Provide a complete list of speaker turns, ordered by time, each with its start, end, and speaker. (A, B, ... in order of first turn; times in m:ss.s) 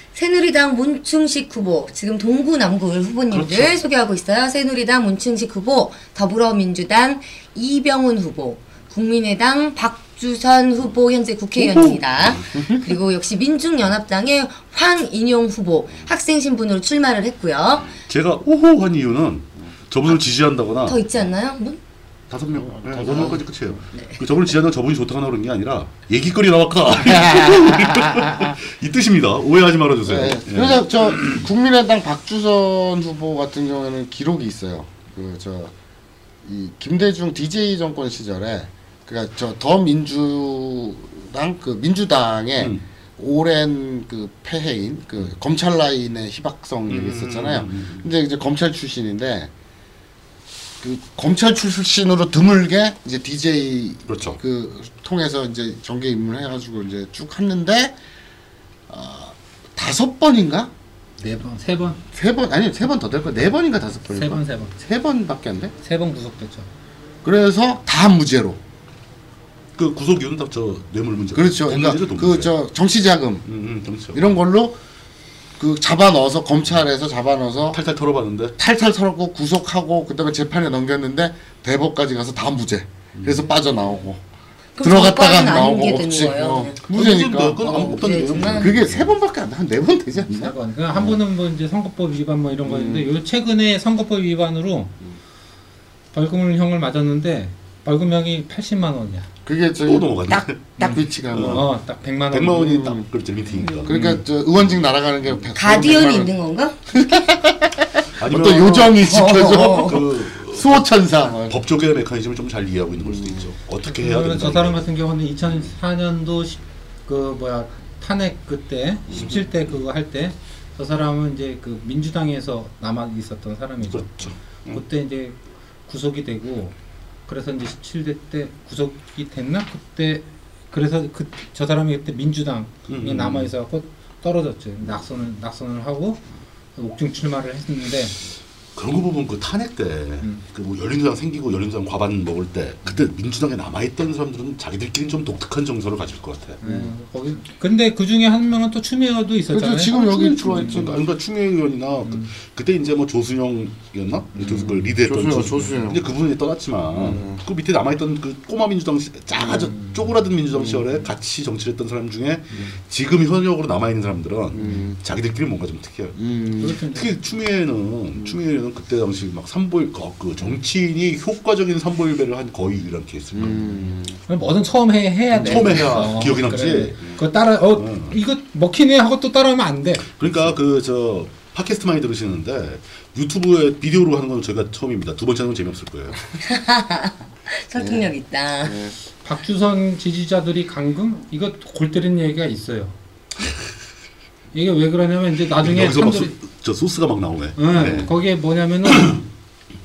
0:00.1-0:17.9 A
0:03.3-0:03.8 B
0:11.6-0:12.4 B
0:18.1-0:21.0 B
0:20.8-0:21.8 A
0:22.3-0:31.4 B
0:22.6-0:23.4 C
0:27.0-0:28.4 C
0:30.0-0:35.7 C
0:36.4-0:49.5 C
0:46.9-0:48.1 B
0:50.8-0:57.9 C
0:54.1-0:54.4 B
0:58.9-1:00.7 C
1:01.2-1:02.0 D
1:02.1-1:05.7 C
1:04.1-1:04.7 D
1:05.8-1:06.7 D
1:07.2-1:08.6 C
1:09.8-1:12.5 B
1:11.3-1:13.4 C
1:13.4-1:14.3 B
1:14.1-1:14.8 C
1:15.6-1:17.8 C
1:17.7-1:18.5 B
1:18.6-1:24.2 C
1:23.2-1:23.4 B
1:24.8-1:26.8 A
1:24.8-1:30.5 C
1:26.9-1:29.1 B
1:27.6-1:28.8 A
1:30.3-1:34.9 D
1:32.6-1:33.0 C
1:36.1-1:39.3 D
1:39.4-1:41.7 C
1:39.8-1:41.7 B
1:40.8-1:42.8 D
1:42.3-1:44.8 B
1:42.5-1:43.0 C
1:43.6-1:43.9 A
1:43.8-1:46.3 C
1:45.5-1:46.8 A
1:46.9-1:51.6 C
1:48.2-1:54.8 B
1:48.9-1:50.0 A
1:53.0-1:53.4 C
1:53.9-2:05.4 D
2:03.8-2:04.8 B
2:05.9-2:06.7 D
2:07.3-2:16.2 D
2:12.9-2:13.5 B
2:16.8-2:18.2 D
2:18.7-2:26.6 B
2:26.6-2:30.9 D
2:29.5-2:31.0 C
2:30.0-2:53.9 B
2:34.4-2:36.0 C
2:36.9-2:37.4 C
2:39.4-2:40.0 D
2:40.5-2:40.8 C
2:44.5-2:45.0 C
2:46.2-2:46.7 C
2:46.6-2:47.1 D
2:53.3-2:54.2 C
2:54.3-3:00.1 D
2:55.3-2:57.2 B
2:57.8-2:58.1 B
3:00.1-3:06.2 B
3:06.4-3:08.8 A
3:07.8-3:08.1 C
3:08.6-3:08.9 C
3:09.2-3:12.9 D
3:14.5-3:16.3 D
3:15.6-3:18.1 B
3:17.6-3:19.2 D